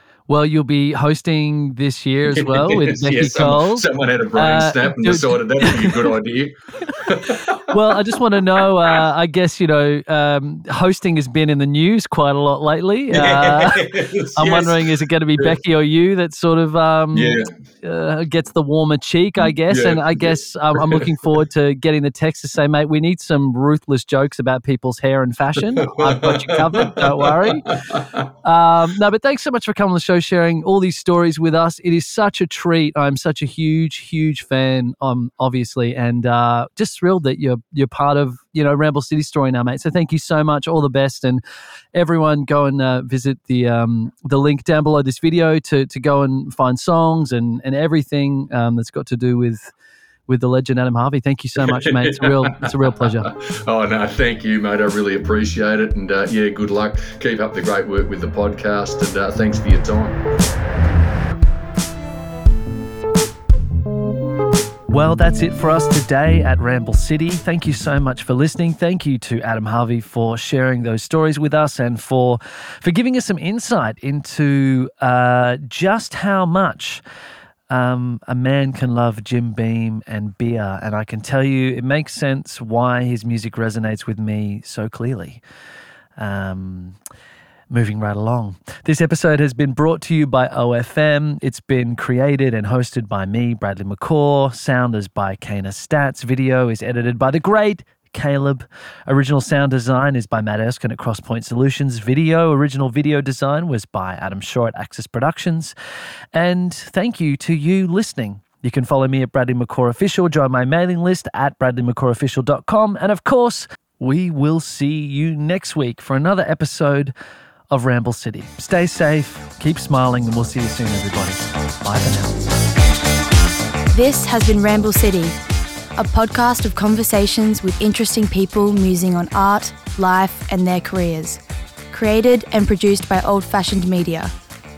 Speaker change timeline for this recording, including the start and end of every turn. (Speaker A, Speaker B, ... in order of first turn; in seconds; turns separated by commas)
Speaker A: 0.3-6.1, Speaker B: 2.3-7.8, Speaker A: 7.1-27.8, Speaker B: 13.1-14.8, Speaker B: 17.1-17.5, Speaker B: 19.7-21.1, Speaker B: 25.8-28.3, Speaker A: 28.4-41.4, Speaker A: 41.9-49.7, Speaker A: 50.3-53.3, Speaker B: 51.6-60.2, Speaker A: 64.9-77.0, Speaker A: 77.7-85.4, Speaker A: 86.2-87.0, Speaker A: 87.7-105.7, Speaker A: 106.3-117.1, Speaker A: 117.7-122.5, Speaker C: 123.9-125.3, Speaker C: 126.0-134.3